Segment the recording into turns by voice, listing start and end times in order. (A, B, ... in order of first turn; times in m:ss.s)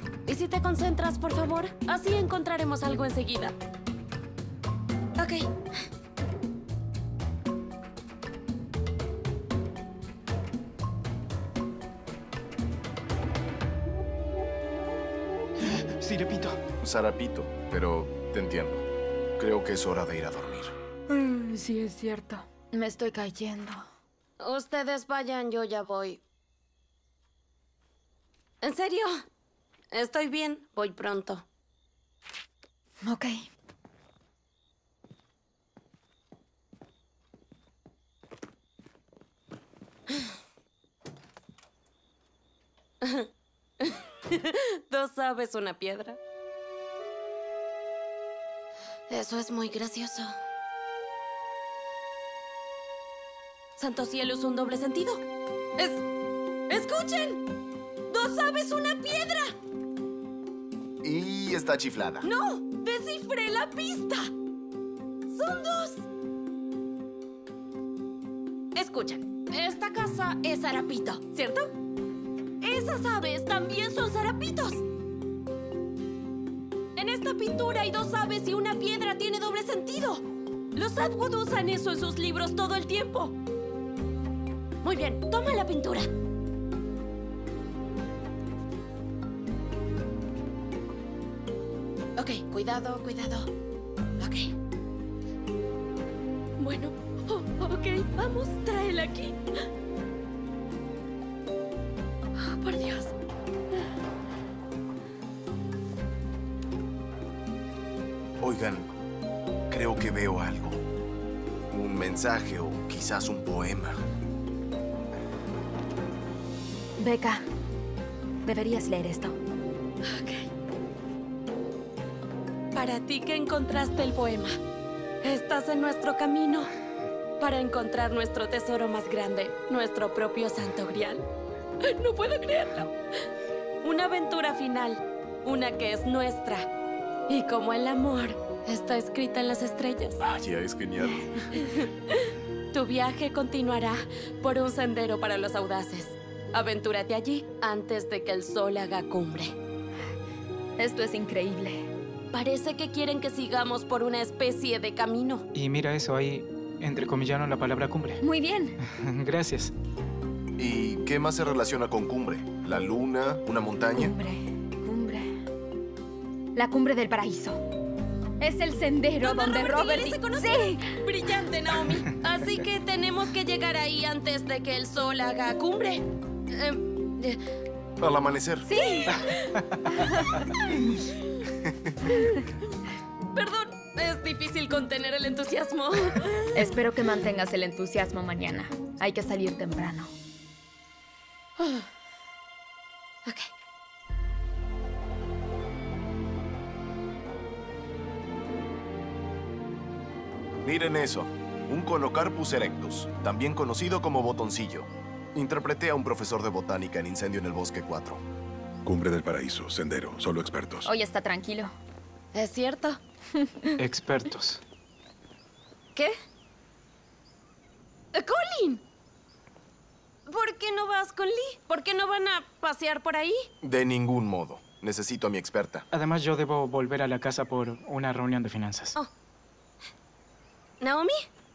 0:00.2-0:03.5 A
0:05.2-0:05.5 A
0:16.0-0:16.6 B
0:16.8-0:18.8 C
0:19.4-0:20.7 C
0:21.1-0:23.8 D
0:24.4-0:26.2 A
0:28.6-0:29.2 A
0:29.9-0:31.4 A
0:33.0-0:33.4 D
0:43.0-0:43.3 A
0:43.8-0:46.2 A
0:49.1-0:50.3 A
0:53.8-0:55.2 A
0:55.8-0:56.0 A
0:56.7-0:57.4 A
0:58.1-0:59.5 A
1:01.0-1:02.2 C
1:02.2-1:04.3 A
1:05.3-1:06.0 A
1:08.7-1:11.7 A
1:12.6-1:14.8 A
1:17.0-1:20.2 A
1:20.7-1:23.4 A
1:24.8-1:26.1 A
1:32.2-1:33.5 A
1:34.2-1:34.5 A
1:36.6-1:39.4 A
1:42.4-1:43.1 A
1:48.4-1:48.9 C
1:49.7-1:50.8 C
1:51.7-1:54.0 C
1:57.0-1:57.4 D
1:58.4-1:59.4 D
2:00.0-2:00.5 A
2:02.7-2:04.6 A
2:05.2-2:06.7 A
2:07.4-2:11.2 A
2:11.8-2:12.9 A
2:13.8-2:16.7 A
2:17.3-2:20.2 A
2:20.2-2:21.4 C
2:21.6-2:29.5 A
2:30.8-2:31.9 D
2:32.3-2:35.5 A
2:35.5-2:38.2 B
2:38.2-2:38.8 D
2:38.8-2:39.7 B
2:40.6-2:44.1 C
2:43.9-2:45.4 D
2:46.5-2:47.6 D
2:48.4-2:51.0 D
2:49.2-2:57.4 A
2:58.0-2:58.7 C
2:58.7-2:59.2 D
2:58.7-2:59.6 A
2:59.9-3:00.3 D
3:03.3-3:06.4 A
3:06.5-3:10.1 D
3:11.6-3:11.8 A
3:13.2-3:13.5 A
3:20.6-3:28.2 C
3:28.8-3:30.9 E
3:30.8-3:31.7 D
3:32.3-3:33.0 A
3:33.8-3:34.6 B
3:38.1-3:38.8 A
3:40.3-3:43.5 A
3:43.6-3:45.9 C
3:45.9-3:49.0 B
3:50.8-3:51.2 A